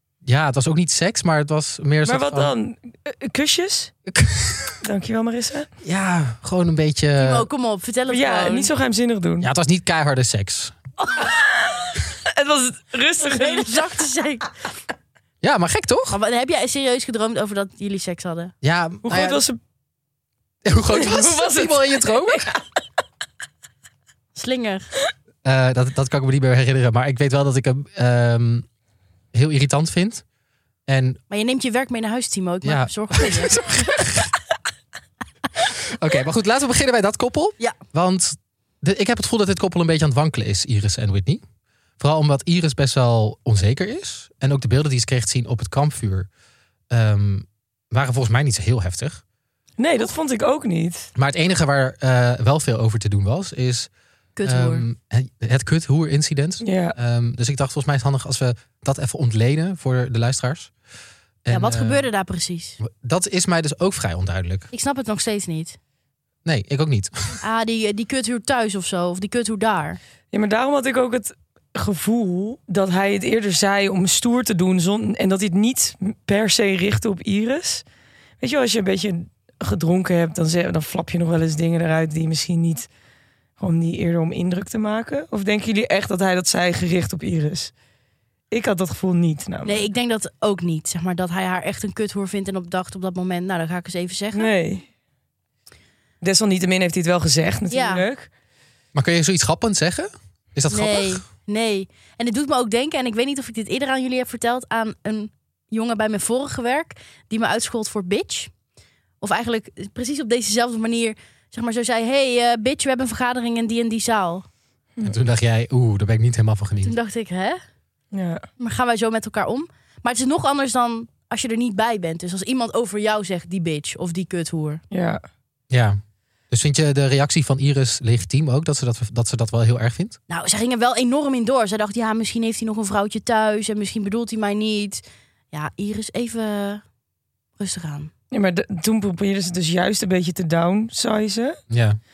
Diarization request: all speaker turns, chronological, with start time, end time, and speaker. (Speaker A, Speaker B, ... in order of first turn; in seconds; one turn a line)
Speaker A: 0.2-2.5
Speaker B: 2.0-3.9
Speaker A: 4.1-4.8
Speaker B: 4.8-5.7
Speaker A: 5.8-7.5
Speaker C: 7.2-8.7
Speaker B: 8.1-9.5
Speaker A: 9.4-10.8
Speaker B: 11.1-13.8
Speaker C: 13.2-14.5
Speaker A: 15.4-16.2
Speaker C: 16.1-18.5
Speaker A: 18.6-19.4
Speaker B: 19.0-19.6
Speaker A: 20.6-22.5
Speaker B: 20.9-22.6
Speaker C: 24.3-24.9
Speaker A: 25.4-28.6
Speaker A: 29.3-30.2
Speaker A: 30.9-31.2
Speaker C: 31.3-33.7
Speaker A: 32.6-34.3
Speaker A: 35.6-41.4
Speaker A: 42.0-46.3
Speaker A: 46.9-49.2
Speaker B: 49.8-51.1
Speaker A: 51.1-53.9
Speaker C: 54.4-54.8
Speaker A: 54.4-60.7
Speaker B: 56.6-57.0
Speaker A: 61.4-62.1
Speaker C: 61.5-62.8
Speaker A: 62.8-64.7
Speaker C: 64.7-65.8
Speaker A: 66.4-67.4
Speaker C: 67.4-70.0
Speaker B: 70.3-77.8
Speaker B: 78.4-82.9
Speaker B: 83.6-87.7
Speaker B: 88.5-89.8
Speaker C: 89.6-94.5
Speaker B: 94.3-94.8
Speaker B: 96.2-98.3
Speaker C: 97.7-98.0
Speaker A: 98.9-101.2
Speaker C: 100.7-108.5
Speaker C: 109.2-114.5
Speaker A: 115.0-116.9
Speaker C: 116.8-117.6
Speaker B: 118.1-118.5
Speaker C: 118.6-124.8
Speaker B: 124.9-125.2
Speaker A: 125.7-126.0
Speaker A: 126.5-130.2
Speaker C: 130.3-136.8
Speaker C: 137.6-138.1
Speaker B: 138.3-141.6
Speaker A: 141.7-142.0